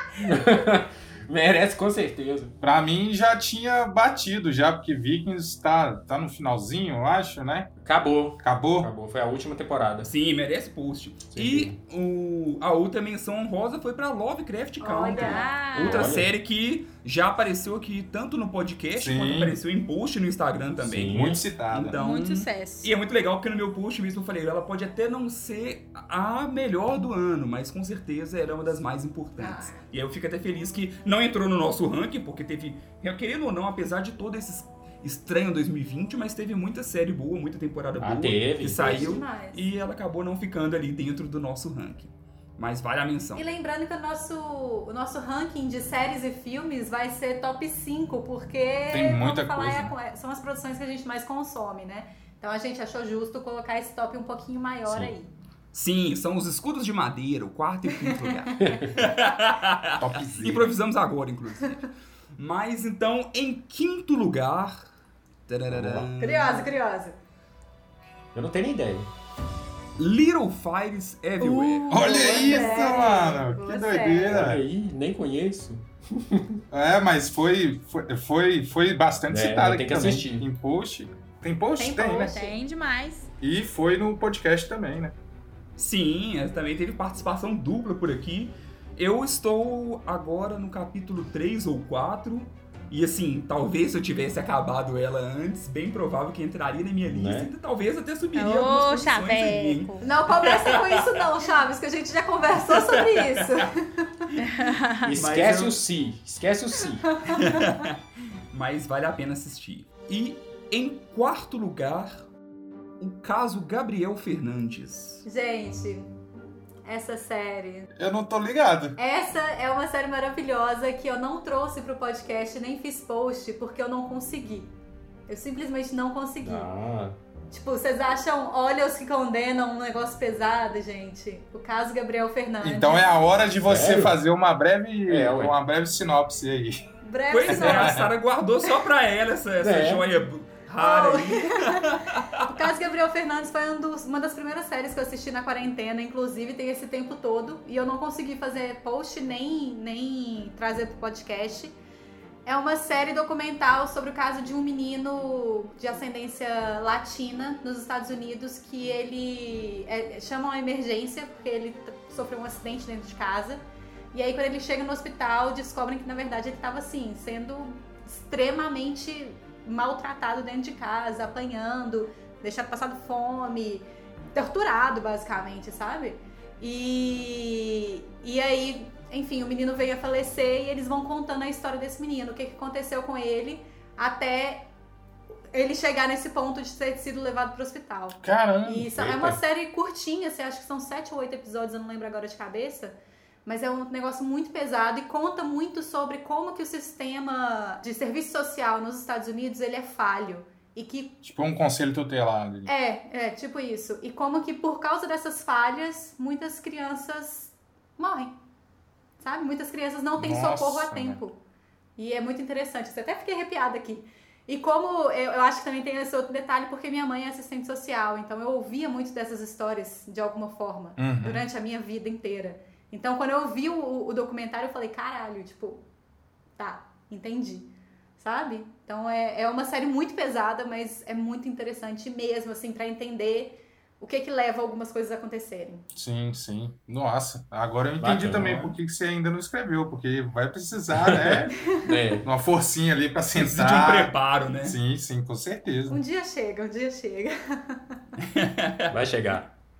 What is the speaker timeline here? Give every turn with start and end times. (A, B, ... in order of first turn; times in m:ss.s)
0:00.2-0:02.6 A
0:02.6-0:07.7 B
0:07.8-0:10.1 A
0:08.4-0:08.9 B
0:10.0-0:43.4 C
0:11.3-0:11.8 A
0:14.8-0:15.6 D
0:15.2-0:16.1 E
0:15.7-0:16.3 A
0:19.0-0:19.6 B
0:20.8-0:21.4 A
0:21.1-0:22.0 B
0:21.9-0:22.9 E
0:29.4-0:29.8 D
0:38.0-0:39.2 A
0:38.8-0:39.6 D
0:43.4-0:55.3 D
0:48.9-0:49.9 B
0:54.9-0:55.1 A
0:55.7-1:01.8 C
0:58.6-0:58.9 A
1:00.0-1:00.7 B
1:02.4-1:04.9 C
1:05.5-1:06.7 C
1:05.7-1:06.1 A
1:06.2-1:07.2 D
1:08.4-1:09.1 A
1:10.0-1:12.3 C
1:11.5-1:14.4 D
1:11.9-1:14.6 B
1:12.0-1:13.0 E
1:14.3-1:16.6 A
1:16.7-1:22.3 B
1:19.3-1:20.4 A
1:21.8-1:22.6 D
1:22.3-1:23.3 E
1:23.4-1:25.1 B
1:25.8-1:41.3 C
1:37.1-1:37.5 A
1:38.4-1:40.0 E
1:40.0-1:44.4 D
1:42.7-1:43.7 C
1:44.4-1:45.1 E
1:45.0-1:47.1 A
1:45.1-1:45.8 C
1:47.1-1:47.8 D
1:47.3-1:48.0 C
1:48.5-1:52.3 C
1:53.0-1:55.2 C
1:55.2-1:56.2 D
1:56.8-1:57.9 D
1:58.0-1:59.0 B
1:59.0-2:04.7 D
2:05.3-2:06.7 D
2:06.4-2:07.2 A
2:07.5-2:13.1 D
2:12.6-2:16.8 B
2:13.6-2:14.2 A
2:15.1-2:15.6 A
2:17.0-2:18.1 D
2:17.3-2:22.5 C
2:17.5-2:18.1 B
2:19.6-2:20.1 A
2:20.8-2:31.8 D
2:32.5-3:04.7 D
3:05.5-3:21.2 D
3:08.2-3:09.1 B
3:09.0-3:09.4 A
3:21.2-3:22.7 B
3:22.7-3:28.3 D
3:29.2-3:31.4 D
3:30.2-3:31.2 B
3:32.0-3:45.8 D
3:41.0-3:41.4 B
3:46.6-3:55.8 D
3:56.0-4:01.7 B
3:58.0-3:58.7 A
3:58.3-3:58.7 C
4:00.9-4:02.3 A
4:02.2-4:06.0 B
4:03.3-4:04.8 C
4:05.9-4:08.0 D
4:08.2-4:08.9 C
4:08.9-4:09.5 A